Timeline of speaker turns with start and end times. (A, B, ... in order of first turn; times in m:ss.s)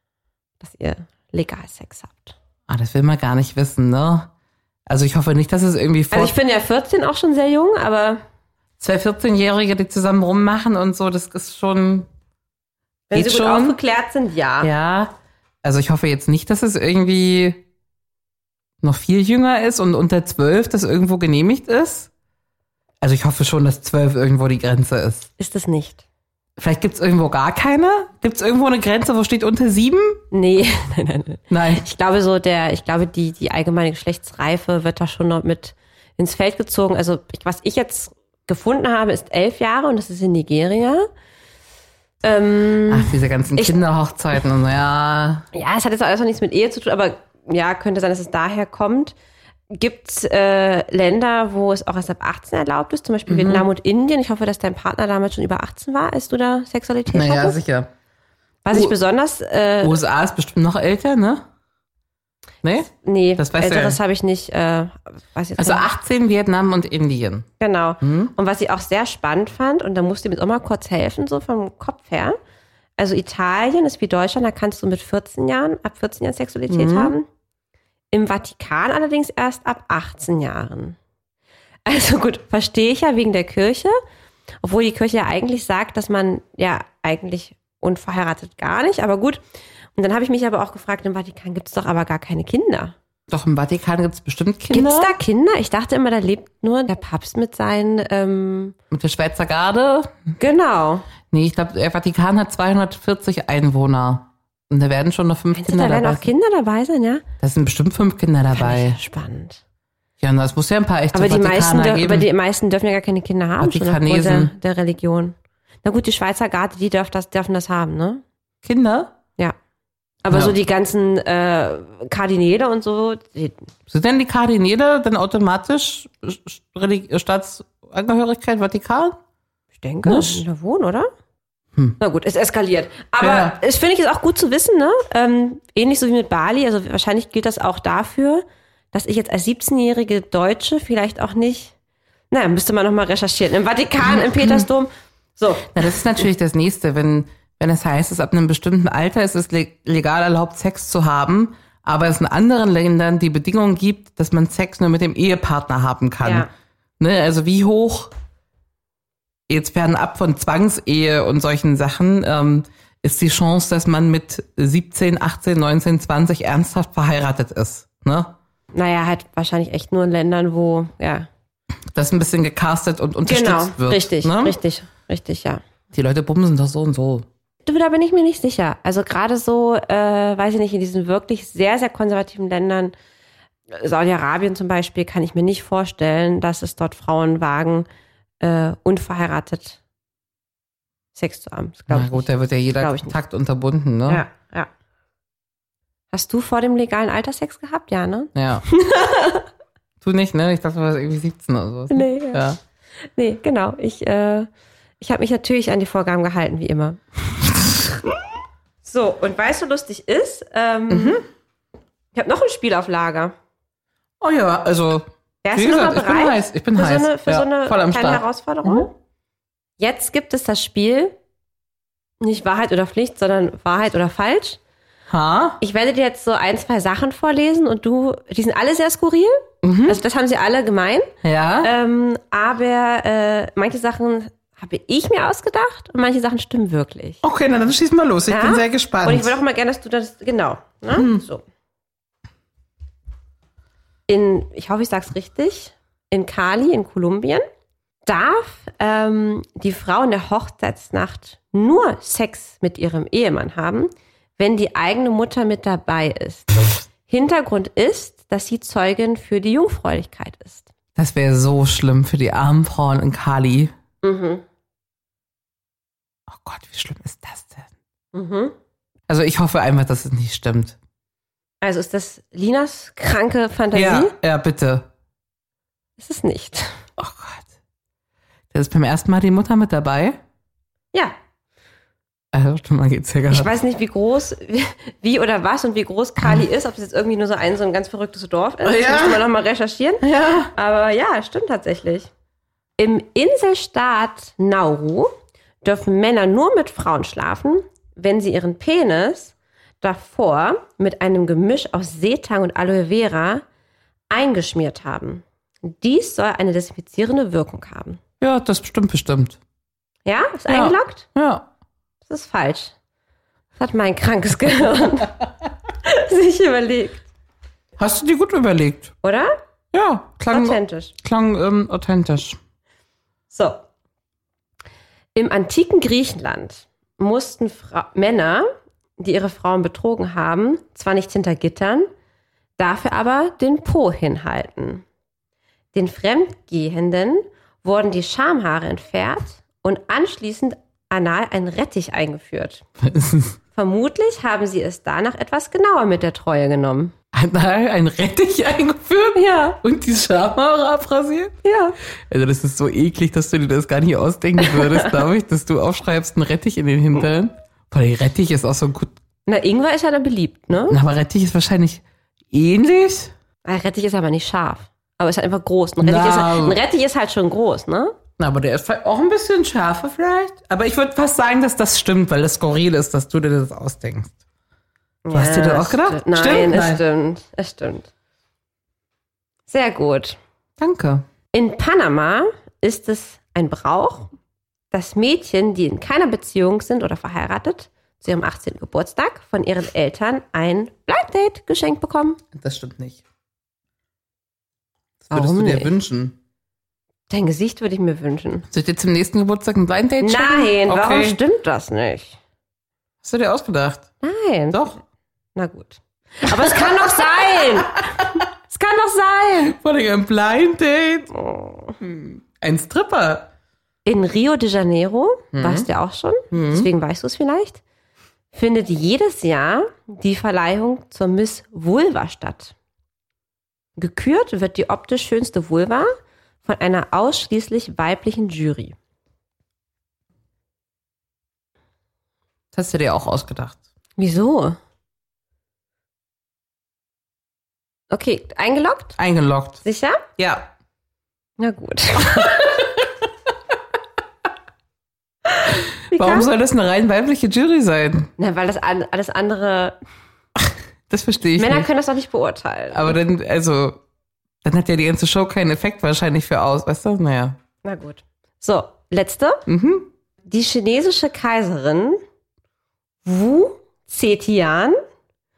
0:00.6-0:02.3 A
0:02.7-0:04.3 B
0:04.9-0:06.3 B
0:06.1-0:08.2 A
0:08.8-0:12.1 B
0:13.1-0:14.7 A
0:13.1-0:13.8 B
0:14.6-0:17.6 B
0:18.8-0:22.1 B
0:23.0-0:25.3 B
0:25.4-0:26.0 A
0:26.6-0:30.2 B
0:30.3-0:41.1 A
0:31.5-0:31.8 B
0:42.2-0:43.8 A
0:42.9-0:45.4 B
0:45.5-0:49.1 A
0:49.7-0:57.6 A
0:53.3-0:53.7 B
0:57.1-0:57.9 B
0:58.6-1:00.0 A
0:59.8-1:01.4 B
1:02.6-1:04.0 B
1:02.9-1:05.9 A
1:05.6-1:07.5 B
1:07.6-1:12.4 A
1:08.0-1:08.3 B
1:13.0-1:17.2 A
1:16.7-1:17.1 B
1:18.1-1:21.0 A
1:21.8-1:24.0 A
1:24.6-1:29.4 A
1:29.9-1:32.9 A
1:33.3-1:35.1 B
1:34.7-1:38.7 A
1:38.9-1:40.2 B
1:40.4-1:41.1 A
1:41.3-1:46.3 B
1:45.5-1:47.2 A
1:47.4-1:49.0 B
1:48.5-1:49.6 A
1:50.2-1:52.3 B
1:51.1-1:58.2 A
1:53.6-1:54.5 B
1:58.6-1:59.1 B
2:00.2-2:03.6 A
2:00.3-2:00.6 B
2:03.9-2:09.2 B
2:09.8-2:11.1 A
2:10.0-2:10.4 B
2:12.0-2:21.7 A
2:13.2-2:13.6 B
2:22.3-2:25.8 A
2:24.0-2:24.7 B
2:25.7-2:38.1 B
2:36.2-2:36.5 A
2:39.5-2:48.3 B
2:48.7-2:51.3 A
2:51.9-2:54.6 B
2:53.2-2:55.6 A
2:55.9-2:57.2 B
2:57.6-3:02.9 A
3:03.7-3:07.9 A
3:08.4-3:09.8 A
3:11.1-3:13.2 A
3:11.9-3:14.2 B
3:14.1-3:14.7 A
3:16.1-3:19.5 A
3:18.3-3:18.6 B
3:20.0-3:22.6 B
3:21.9-3:22.5 A
3:23.1-3:24.5 A
3:25.0-3:27.5 A
3:28.8-3:31.2 A
3:30.9-3:31.2 B
3:32.1-3:33.3 A
3:34.2-3:38.9 B
3:35.4-3:38.9 A
3:39.8-3:41.1 A
3:42.2-3:44.6 A
3:45.1-3:45.6 B
3:45.6-3:57.2 A
3:49.6-3:50.0 B
3:51.2-3:51.7 B
3:57.2-3:59.3 B
3:58.3-4:01.4 A
4:00.9-4:01.2 B
4:04.1-4:07.4 A
4:08.0-4:16.5 A
4:17.0-4:20.7 A
4:21.0-4:23.7 B
4:24.0-4:24.4 A
4:26.3-4:27.7 B
4:28.1-4:28.5 A
4:29.1-4:30.8 B
4:31.6-4:34.1 A
4:33.7-4:34.9 B
4:36.0-4:36.8 A
4:37.0-4:37.4 B
4:38.5-4:40.2 B
4:42.3-4:43.5 B
4:43.3-4:52.1 A
4:48.6-4:49.2 B
4:50.0-4:50.5 B
4:52.8-4:55.1 A
4:55.6-5:03.4 A
5:04.1-5:08.0 A
5:08.2-5:09.4 B
5:10.0-5:11.0 A
5:10.5-5:11.5 B
5:12.1-5:12.7 A
5:13.6-5:15.2 A
5:15.8-5:17.0 A
5:17.8-5:18.9 B
5:19.0-5:19.3 A
5:19.7-5:22.4 B
5:20.3-5:20.9 A
5:23.3-5:23.6 A
5:25.1-5:28.5 A
5:29.0-5:31.9 A
5:32.6-5:34.8 A
5:35.7-5:42.6 A
5:42.8-5:43.4 B
5:43.5-5:46.9 A
5:47.1-5:51.3 B
5:49.1-5:49.6 A
5:51.4-5:51.8 A
5:52.1-5:58.9 B
5:59.3-6:00.8 A
6:00.7-6:03.1 B
6:03.4-6:07.9 A
6:05.8-6:06.6 B
6:08.2-6:14.2 B
6:15.0-6:17.9 A
6:15.1-6:16.8 B
6:19.5-6:20.2 A
6:20.6-6:21.0 B
6:21.3-6:24.1 A
6:24.7-6:32.2 A
6:32.3-6:33.0 B
6:35.0-6:36.2 B
6:35.1-6:35.7 A
6:37.1-6:38.4 A
6:38.5-6:41.2 B
6:40.0-6:42.2 A
6:43.0-6:43.9 B
6:44.0-6:44.8 A
6:44.5-6:44.8 B
6:45.4-6:49.6 A
6:46.3-6:46.9 B
6:49.4-6:51.1 B
6:51.1-6:51.7 A
6:51.8-6:53.3 B
6:53.8-6:57.6 A
6:55.3-6:55.7 B
6:56.3-6:56.7 B
6:58.3-7:02.5 A
7:03.8-7:05.9 A
7:06.4-7:08.7 A
7:12.5-7:13.6 B
7:14.0-7:14.6 A
7:17.9-7:19.0 A
7:19.0-7:19.6 B
7:19.6-7:20.0 A
7:20.2-7:20.5 B
7:21.4-7:22.8 A
7:25.9-7:26.3 A
7:25.9-7:28.1 B
7:28.2-7:29.7 A
7:30.4-7:31.7 B
7:31.4-7:33.0 A
7:32.7-7:33.8 B
7:34.4-7:37.4 B
7:37.6-7:39.4 A
7:39.5-7:39.9 B
7:40.3-7:42.0 A
7:43.0-7:44.8 A